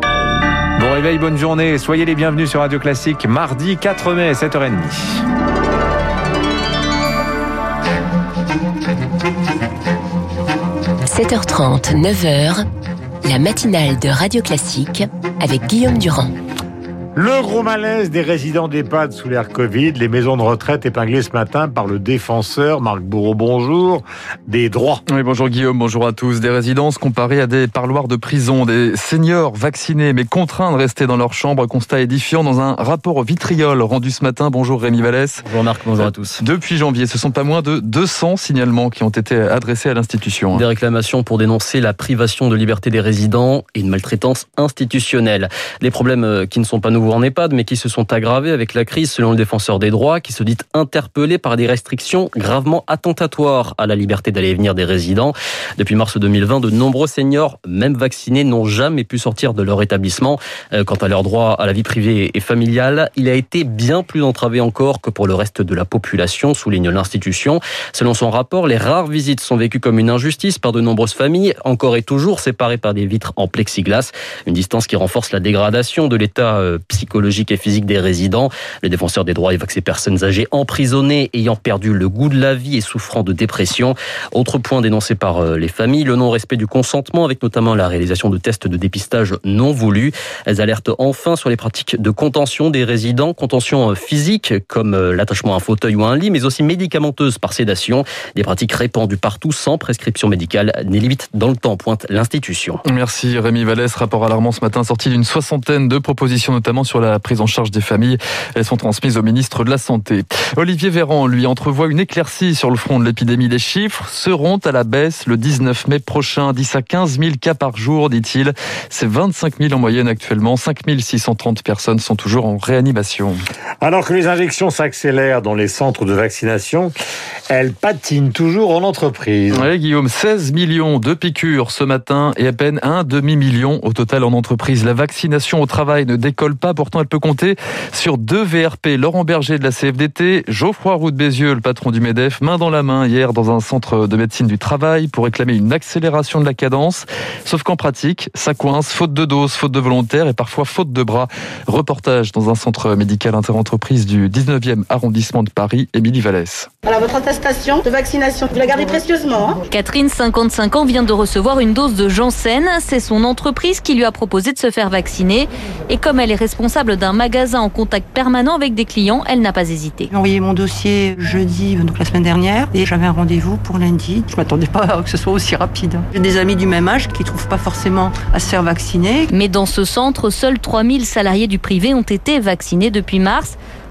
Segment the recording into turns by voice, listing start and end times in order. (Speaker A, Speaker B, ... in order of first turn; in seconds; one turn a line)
Speaker A: 0.8-5.2
Speaker B: 11.1-12.6
Speaker B: 13.2-16.3
Speaker C: 17.1-25.0
Speaker D: 25.1-35.4
Speaker E: 35.4-36.4
Speaker D: 36.0-40.6
Speaker E: 40.5-102.8
Speaker D: 102.8-123.4
Speaker C: 123.8-126.9
Speaker C: 127.5-129.7
Speaker D: 129.5-156.7
Speaker F: 156.8-159.6
Speaker G: 159.7-170.1
Speaker H: 170.1-179.3
Speaker G: 179.3-183.6